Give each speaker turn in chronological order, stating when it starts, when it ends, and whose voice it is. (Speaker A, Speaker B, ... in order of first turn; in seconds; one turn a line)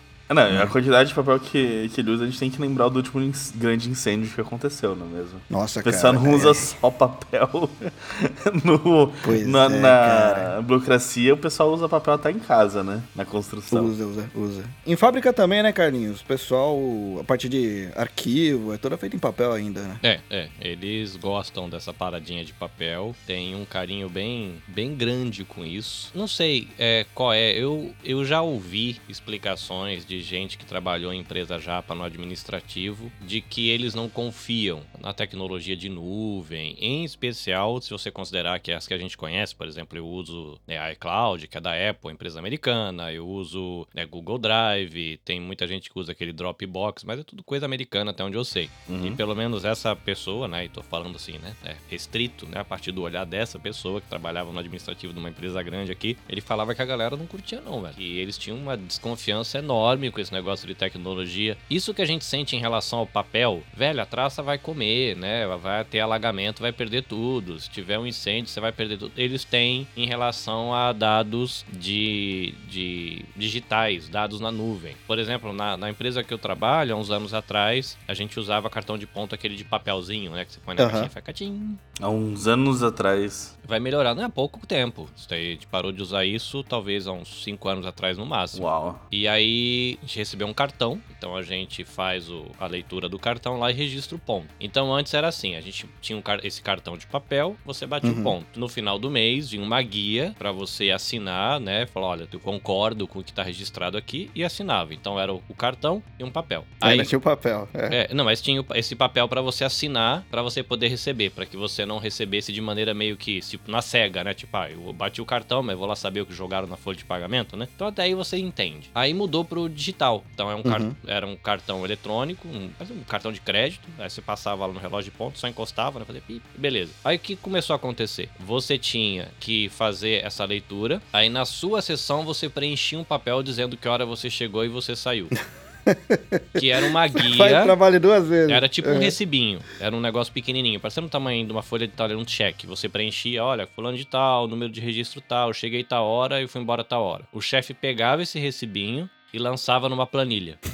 Speaker A: 0.3-13.9
Speaker B: 5.5-6.7
Speaker B: 9.2-10.5
Speaker B: 13.7-20.0
Speaker C: 20.0-81.8
Speaker A: 48.9-49.2
Speaker B: 80.8-81.1
Speaker A: 82.0-83.5
Speaker C: 83.6-107.1
Speaker A: 88.5-89.0
Speaker B: 98.0-98.3
Speaker B: 106.8-108.0
Speaker C: 107.9-135.3
Speaker B: 120.6-120.9
Speaker B: 135.9-139.2
Speaker C: 136.6-137.8
Speaker C: 138.5-150.6